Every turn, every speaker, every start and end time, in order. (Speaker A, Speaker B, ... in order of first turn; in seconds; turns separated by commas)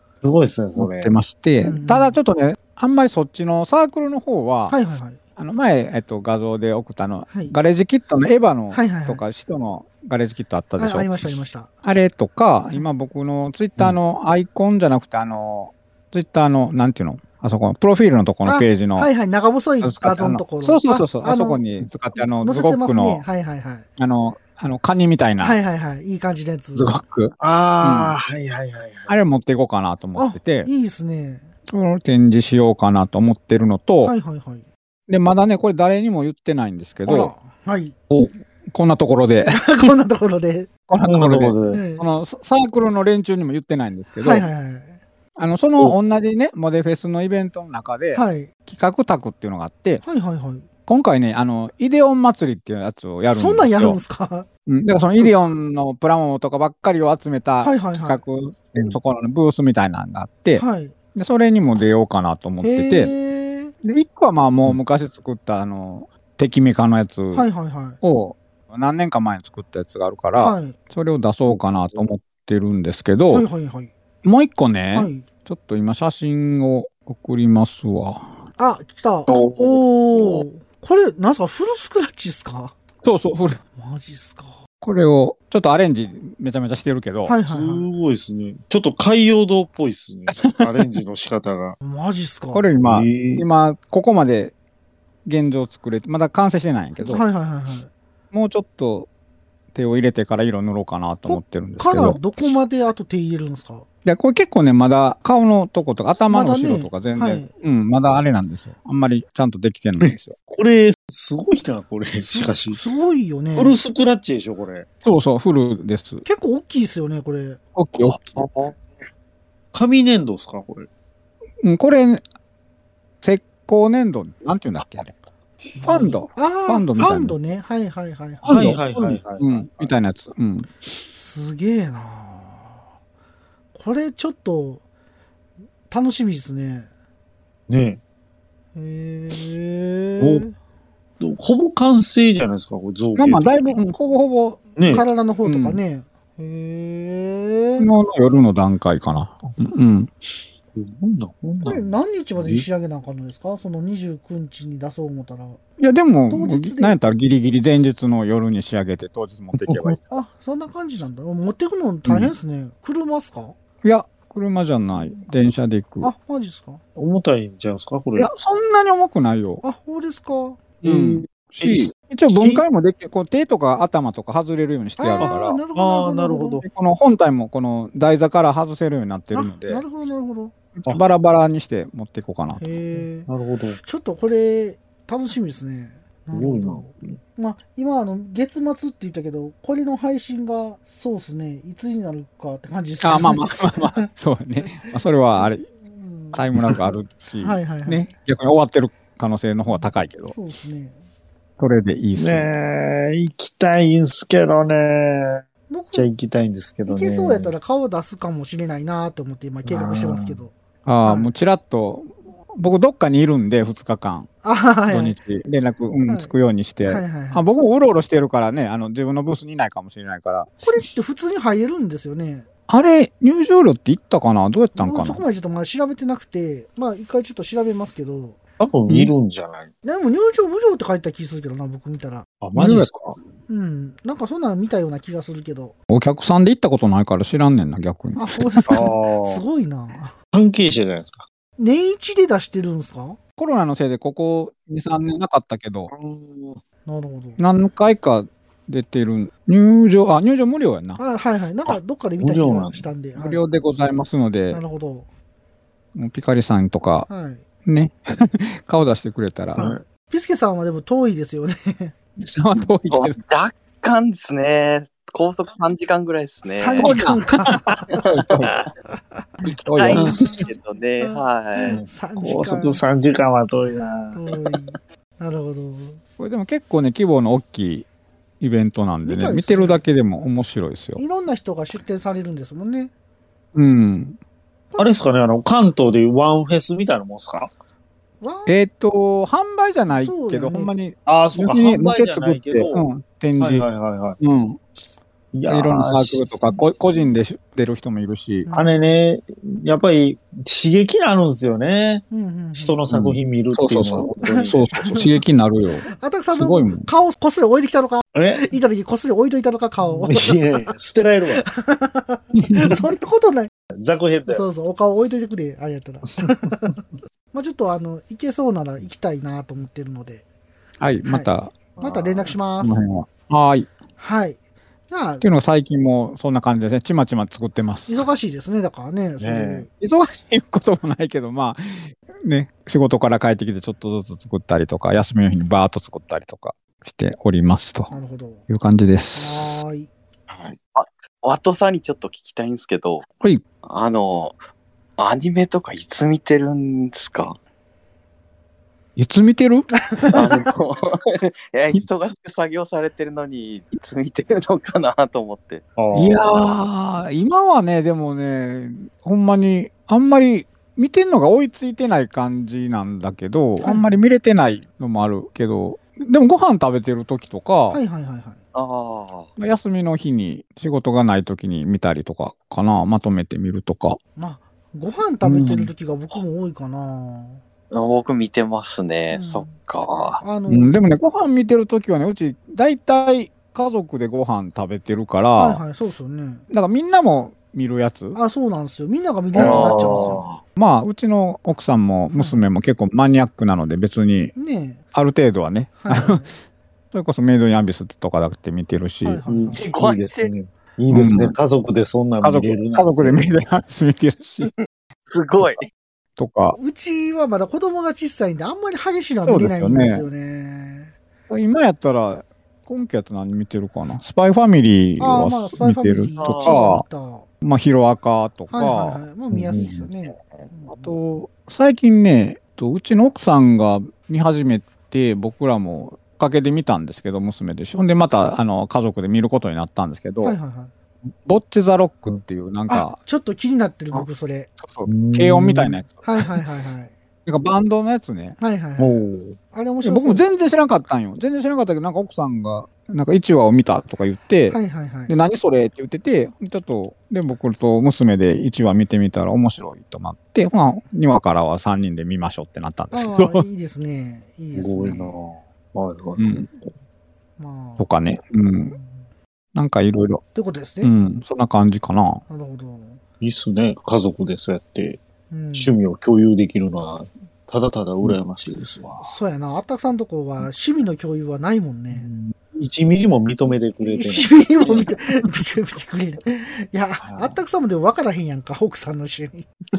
Speaker A: 0.2-1.1, Speaker B: 0.8-4.8, Speaker C: 1.6-2.2, Speaker C: 4.7-5.2, Speaker B: 5.4-11.3, Speaker C: 7.3-7.5, Speaker C: 8.7-9.2, Speaker C: 10.8-11.7, Speaker B: 11.8-19.1, Speaker C: 18.4-21.6, Speaker B: 19.8-23.2, Speaker C: 22.4-23.9, Speaker B: 24.0-25.6, Speaker C: 25.4-27.0, Speaker B: 26.8-28.1, Speaker A: 27.4-29.1, Speaker B: 29.1-30.7, Speaker C: 30.1-31.5, Speaker B: 31.7-34.1, Speaker C: 34.0-34.6, Speaker B: 35.1-37.3, Speaker C: 37.0-37.9, Speaker B: 38.7-39.9, Speaker C: 39.5-40.7, Speaker B: 40.9-44.5, Speaker A: 41.0-41.8, Speaker C: 41.7-42.0, Speaker C: 44.2-45.0, Speaker B: 45.4-50.0, Speaker C: 48.1-48.5, Speaker C: 50.0-50.6, Speaker B: 50.9-54.0, Speaker C: 53.2-54.5, Speaker B: 54.7-63.1, Speaker C: 57.6-58.2, Speaker C: 60.5-60.9, Speaker C: 62.6-63.7, Speaker B: 63.8-67.5, Speaker C: 67.3-68.0, Speaker B: 68.0-73.5, Speaker C: 70.4-70.8, Speaker C: 73.3-73.9, Speaker B: 74.2-78.4, Speaker C: 74.9-75.2, Speaker C: 78.6-82.8, Speaker D: 79.3-80.4, Speaker B: 83.0-83.6, Speaker C: 83.8-84.6, Speaker B: 84.8-87.4, Speaker C: 87.2-87.9, Speaker A: 87.5-91.8, Speaker B: 90.5-91.0, Speaker C: 91.8-92.7, Speaker B: 92.5-94.5, Speaker A: 92.8-93.4, Speaker B: 95.2-97.2, Speaker C: 97.0-97.9, Speaker B: 98.3-99.1, Speaker B: 99.7-102.2, Speaker C: 101.2-103.9, Speaker B: 104.0-110.4, Speaker C: 106.3-107.5, Speaker A: 110.0-112.8, Speaker C: 112.2-113.8, Speaker A: 113.5-114.9, Speaker B: 115.0-116.2, Speaker C: 116.2-117.6, Speaker B: 117.8-118.4, Speaker A: 118.0-118.3, Speaker D: 118.4-118.8, Speaker A: 119.7-120.9, Speaker B: 121.6-122.2, Speaker B: 123.2-125.2, Speaker B: 125.8-127.4, Speaker C: 125.8-128.6, Speaker B: 128.4-130.7, Speaker A: 128.4-129.9, Speaker C: 131.1-132.8, Speaker C: 133.8-134.8, Speaker C: 135.9-136.9, Speaker A: 137.7-138.0, Speaker C: 138.8-140.5, Speaker A: 140.2-140.4, Speaker A: 141.2-143.8, Speaker B: 143.2-145.8, Speaker A: 144.8-145.0, Speaker C: 144.9-147.9, Speaker B: 147.8-150.1, Speaker A: 150.8-151.9, Speaker C: 151.6-155.6, Speaker A: 152.4-152.7, Speaker B: 155.8-160.1, Speaker C: 156.3-157.0, Speaker A: 159.7-160.0, Speaker C: 160.1-163.5, Speaker B: 163.8-166.1, Speaker C: 166.0-166.8, Speaker A: 166.9-168.3, Speaker B: 168.2-169.6, Speaker C: 169.6-170.6, Speaker A: 170.8-172.6, Speaker B: 170.8-175.6, Speaker C: 175.0-176.6, Speaker A: 175.2-176.6, Speaker B: 176.6-179.8, Speaker C: 179.3-180.5, Speaker B: 180.8-182.8, Speaker C: 182.6-183.3, Speaker A: 183.2-183.8, Speaker C: 183.8-194.1, Speaker A: 186.3-187.2, Speaker B: 193.0-195.7, Speaker C: 195.8-196.4, Speaker B: 196.3-200.3, Speaker C: 197.4-198.1, Speaker C: 199.7-201.0, Speaker B: 201.6-202.5, Speaker A: 202.2-207.5, Speaker C: 205.7-206.1, Speaker C: 206.9-211.3, Speaker A: 209.6-210.4, Speaker B: 210.9-214.3, Speaker C: 214.4-215.2, Speaker B: 214.9-220.7, Speaker C: 216.0-216.3, Speaker C: 216.8-217.4, Speaker C: 220.6-222.5, Speaker B: 222.7-225.2, Speaker C: 224.8-228.4, Speaker A: 228.6-229.7, Speaker C: 229.8-232.3, Speaker A: 232.4-233.2, Speaker B: 232.5-232.9, Speaker C: 233.5-235.8, Speaker B: 235.9-238.7, Speaker C: 238.2-240.1, Speaker A: 238.7-239.4, Speaker A: 240.3-241.2, Speaker C: 241.6-243.2, Speaker B: 243.4-245.9, Speaker A: 245.9-246.6, Speaker C: 246.9-247.4, Speaker B: 247.4-251.0, Speaker C: 251.0-253.4, Speaker A: 252.2-252.9, Speaker B: 253.2-254.6, Speaker C: 254.5-255.1, Speaker B: 255.9-257.1, Speaker C: 257.1-257.4, Speaker B: 257.6-259.7, Speaker C: 259.5-261.9, Speaker A: 259.6-259.8, Speaker B: 262.2-263.2, Speaker D: 262.9-266.9, Speaker C: 266.4-267.9, Speaker B: 266.8-268.6, Speaker C: 268.9-269.2, Speaker B: 269.4-270.5, Speaker D: 269.7-271.8, Speaker A: 269.9-270.2, Speaker C: 271.0-272.8, Speaker A: 271.7-274.4, Speaker C: 274.1-276.0, Speaker B: 276.2-277.9, Speaker B: 278.4-281.0, Speaker C: 279.0-279.8, Speaker C: 281.0-282.9, Speaker B: 283.5-284.2, Speaker A: 284.8-287.5, Speaker C: 288.2-288.5, Speaker B: 288.4-293.7, Speaker C: 289.9-290.7, Speaker A: 291.1-292.8, Speaker A: 293.4-294.2, Speaker B: 294.2-294.6, Speaker A: 295.3-296.7, Speaker B: 295.5-298.5, Speaker C: 298.4-298.8, Speaker A: 298.5-305.0, Speaker C: 302.1-302.8, Speaker B: 302.9-306.9, Speaker C: 304.2-305.1, Speaker C: 306.0-310.4, Speaker A: 308.1-308.5, Speaker A: 309.8-311.4, Speaker C: 311.4-313.5, Speaker B: 312.4-312.8, Speaker A: 313.8-314.4, Speaker C: 314.3-316.8, Speaker C: 317.3-320.2, Speaker B: 320.8-321.6, Speaker C: 321.0-322.8, Speaker A: 321.8-322.4, Speaker B: 322.6-323.7, Speaker C: 324.0-324.4, Speaker C: 324.9-325.2, Speaker B: 325.2-328.0, Speaker C: 327.9-329.7, Speaker A: 329.2-329.7, Speaker B: 329.7-337.9, Speaker C: 337.9-338.4, Speaker B: 338.5-339.5, Speaker C: 339.1-339.9, Speaker A: 340.3-340.6, Speaker D: 340.8-343.0, Speaker D: 343.6-344.4, Speaker D: 345.0-347.4, Speaker B: 348.9-350.2, Speaker D: 350.1-355.6, Speaker A: 355.8-356.2, Speaker B: 355.9-367.8, Speaker C: 363.6-363.9, Speaker C: 367.7-368.4, Speaker D: 368.5-369.3, Speaker B: 369.4-374.0, Speaker C: 374.1-377.4, Speaker B: 375.2-375.7, Speaker D: 377.7-380.2, Speaker C: 379.1-379.5, Speaker C: 380.2-380.7, Speaker B: 380.5-385.6, Speaker C: 385.4-386.4, Speaker B: 386.5-388.2, Speaker C: 388.1-390.2, Speaker A: 389.3-390.2, Speaker D: 389.3-390.4, Speaker B: 390.6-394.3, Speaker C: 392.1-392.4, Speaker C: 394.4-394.8, Speaker B: 394.9-396.3, Speaker C: 395.8-396.3, Speaker B: 396.9-399.2, Speaker C: 399.0-399.6, Speaker A: 399.3-403.3, Speaker D: 399.6-400.3, Speaker B: 400.9-401.3, Speaker B: 402.2-404.5, Speaker D: 404.4-405.6, Speaker B: 406.2-406.6, Speaker C: 406.6-410.9, Speaker B: 409.2-410.0, Speaker B: 411.3-416.9, Speaker C: 415.0-417.3, Speaker D: 416.2-416.6, Speaker B: 417.4-419.8, Speaker C: 418.5-420.9, Speaker A: 419.3-419.8, Speaker B: 420.7-430.4, Speaker C: 430.2-430.7, Speaker B: 431.2-433.0, Speaker C: 432.7-434.5, Speaker B: 434.6-436.1, Speaker A: 434.9-435.8, Speaker C: 436.0-436.9, Speaker B: 437.2-438.4, Speaker C: 438.4-440.2, Speaker A: 438.8-439.4, Speaker B: 439.8-453.4, Speaker C: 444.5-445.1, Speaker C: 452.9-455.1, Speaker A: 454.5-456.7, Speaker B: 456.2-456.5, Speaker C: 457.4-457.9, Speaker B: 457.8-458.8, Speaker C: 458.6-459.1, Speaker B: 459.6-460.2, Speaker C: 460.4-460.9, Speaker B: 460.8-462.2, Speaker C: 462.3-463.0, Speaker A: 463.2-465.0, Speaker C: 465.3-465.7, Speaker A: 465.5-469.1, Speaker C: 469.0-472.1, Speaker A: 471.9-474.9, Speaker C: 473.4-479.5, Speaker A: 477.0-477.4